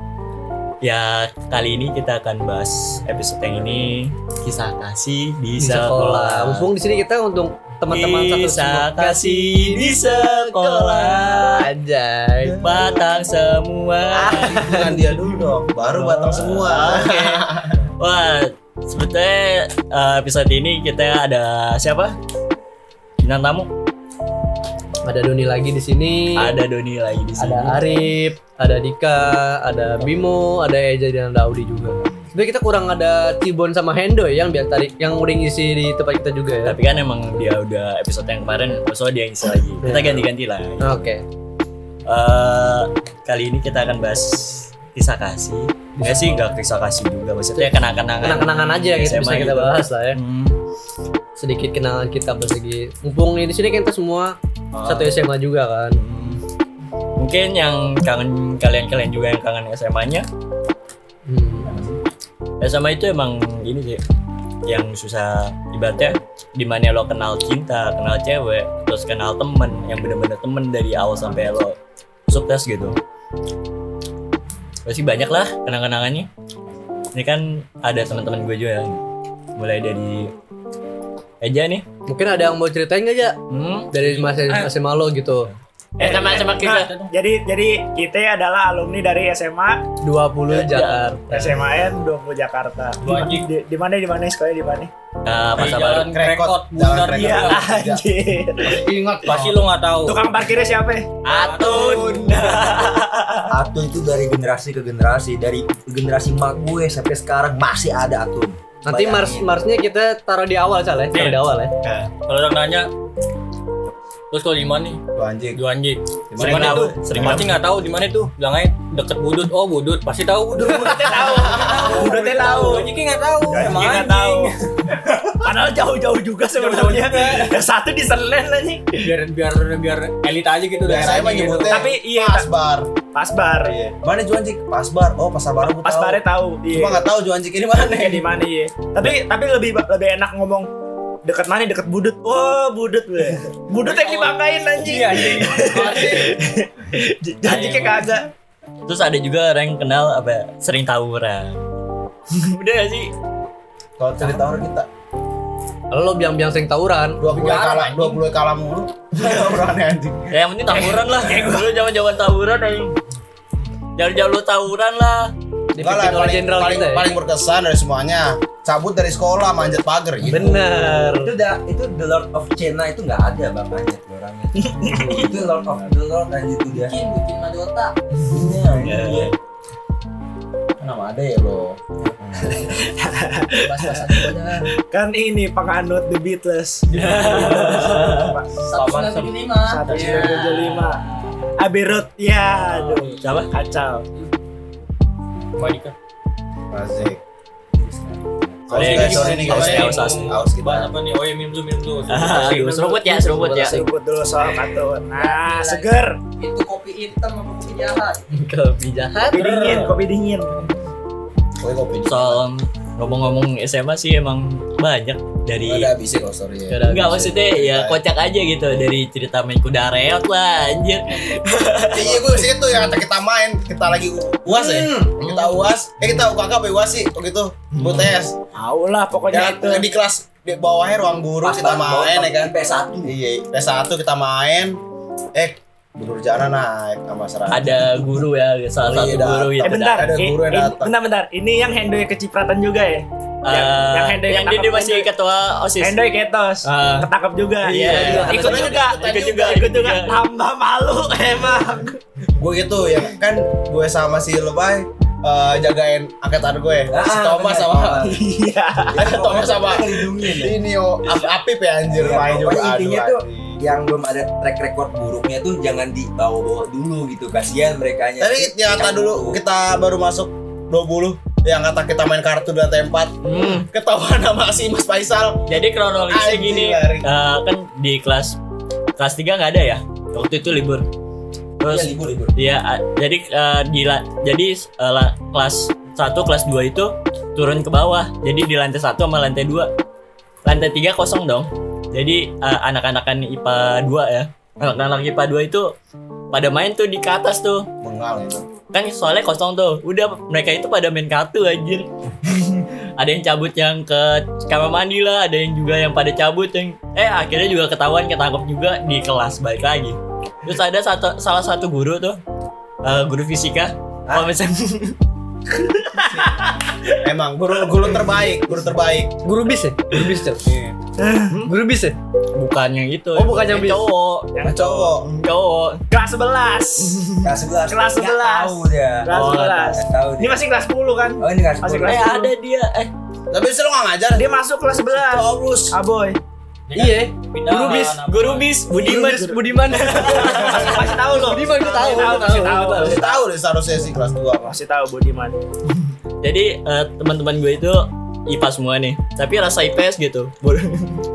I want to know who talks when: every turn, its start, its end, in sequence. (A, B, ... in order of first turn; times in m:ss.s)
0:00.8-0:06.7 A
0:05.6-0:12.7 B
0:07.9-0:11.7 A
0:12.6-0:14.8 A
0:14.1-0:17.8 C
0:15.9-0:17.4 A
0:16.0-0:16.4 B
0:18.0-0:22.1 A
0:23.2-0:23.7 A
0:25.0-0:26.5 B
0:26.4-0:28.1 A
0:27.4-0:36.8 B
0:36.6-0:41.1 A
0:39.8-0:40.2 B
0:40.8-0:41.2 B
0:42.0-0:50.6 A
0:46.0-0:46.5 B
0:47.6-0:50.2 B
0:51.4-0:56.0 B
0:54.7-0:55.1 A
0:55.9-0:56.4 A
0:57.2-1:00.3 A
1:01.3-1:01.7 B
1:01.7-1:02.0 A
1:02.6-1:04.0 A
1:04.7-1:11.8 A
1:12.3-1:13.0 A
1:14.8-1:16.3 A
1:17.1-1:19.0 A
1:19.6-1:20.3 A
1:21.4-1:21.8 A
1:22.1-1:23.4 B
1:23.5-1:24.6 A
1:23.9-1:25.5 B
1:25.5-1:26.9 A
1:26.0-1:29.8 D
1:26.1-1:27.1 E
1:30.0-1:31.6 B
1:30.5-1:31.2 A
1:31.3-1:34.9 D
1:33.0-1:33.4 E
1:35.2-1:36.1 A
1:35.6-1:37.6 E
1:36.1-1:38.0 C
1:37.1-1:38.9 D
1:38.6-1:39.6 C
1:39.2-1:40.2 E
1:40.0-1:41.1 D
1:41.2-1:43.5 A
1:41.3-1:42.1 E
1:42.0-1:42.3 C
1:43.5-1:49.6 F
1:48.8-1:51.7 B
1:51.2-1:52.1 A
1:52.1-1:52.9 E
1:54.3-1:55.0 E
1:55.2-1:55.6 C
1:55.5-2:04.6 E
1:56.3-1:57.5 C
1:56.4-1:57.5 A
2:00.6-2:02.9 D
2:01.2-2:02.3 C
2:03.5-2:04.6 D
2:05.3-2:09.1 D
2:06.6-2:07.5 E
2:09.0-2:11.9 E
2:10.8-2:12.9 C
2:11.6-2:12.5 D
2:13.1-2:13.8 D
2:13.6-2:18.3 C
2:15.7-2:17.0 D
2:17.9-2:20.7 D
2:21.2-2:28.3 D
2:23.8-2:26.3 E
2:27.4-2:28.1 A
2:28.8-2:31.6 A
2:32.3-2:33.1 A
2:34.0-2:34.9 C
2:35.9-2:37.6 B
2:37.2-2:40.3 C
2:37.3-2:38.2 G
2:40.3-2:42.9 A
2:40.7-2:41.7 D
2:44.0-2:45.3 A
2:45.7-2:47.1 B
2:45.8-2:50.4 C
2:50.2-2:57.0 F
2:50.3-2:51.3 B
2:54.8-2:55.9 C
2:56.7-2:58.0 G
2:58.2-2:59.3 F
2:58.8-2:59.3 A
3:00.8-3:02.5 C
3:02.7-3:08.5 D
3:03.5-3:04.7 G
3:06.9-3:08.0 E
3:06.9-3:08.4 A
3:08.6-3:10.4 G
3:08.7-3:10.2 E
3:09.6-3:11.0 D
3:09.9-3:11.0 A
3:11.6-3:14.0 D
3:12.6-3:13.5 A
3:15.6-3:15.9 E
3:16.7-3:17.2 C
3:18.7-3:20.9 C
3:18.7-3:23.0 E
3:18.7-3:20.4 A
3:22.1-3:23.8 A
3:22.9-3:26.2 D
3:23.2-3:23.8 B
3:25.1-3:25.8 G
3:26.4-3:28.2 G
3:28.3-3:29.9 A
3:28.9-3:29.5 B
3:29.3-3:30.6 D
3:31.6-3:32.4 C
3:32.0-3:35.9 A
3:35.6-3:38.0 C
3:36.7-3:37.4 B
3:36.8-3:42.5 A
3:41.9-3:48.4 C
3:44.5-3:45.2 F
3:47.8-3:48.1 A
3:48.5-3:49.9 D
3:49.3-3:52.5 C
3:51.4-3:53.1 F
3:53.0-3:54.8 C
3:55.3-3:58.0 C
3:57.5-4:00.1 A
3:58.8-4:00.9 C
3:59.6-4:05.1 D
4:03.4-4:06.0 A
4:05.8-4:12.0 D
4:06.6-4:07.1 A
4:07.6-4:10.2 A
4:07.7-4:08.5 F
4:07.9-4:09.4 C
4:12.4-4:18.2 C
4:16.9-4:18.2 F
4:18.1-4:19.1 D
4:18.9-4:20.6 F
4:19.0-4:23.6 C
4:21.9-4:29.4 F
4:28.2-4:37.1 C
4:33.2-4:33.7 A
4:35.5-4:38.4 A
4:39.0-4:40.8 A
4:41.6-4:49.7 A
4:41.7-4:42.3 F
4:50.4-4:55.7 A
4:56.3-4:57.7 A
4:57.8-4:58.5 C
4:58.7-5:12.2 A
5:12.8-5:15.0 A
5:14.1-5:14.3 F
5:15.5-5:16.5 A
5:17.0-5:19.1 C
5:19.2-5:20.4 B
5:20.4-5:20.8 C
5:21.0-5:21.4 D
5:21.4-5:22.0 B
5:22.4-5:24.3 A
5:23.1-5:23.9 B
5:24.4-5:24.9 D
5:24.4-5:25.1 C
5:25.0-5:25.8 A
5:25.9-5:32.3 D
5:27.2-5:30.4 F
5:29.1-5:29.7 A
5:31.2-5:32.1 F
5:31.8-5:32.9 A
5:33.3-5:34.4 C
5:34.1-5:36.2 D
5:34.9-5:35.8 C
5:36.7-5:38.5 E
5:36.7-5:38.0 B
5:37.5-5:41.0 A
5:38.7-5:42.9 B
5:38.8-5:39.4 D
5:40.0-5:43.2 D
5:41.9-5:42.9 A
5:42.8-5:44.6 C
5:44.4-5:45.4 D
5:46.2-5:51.0 A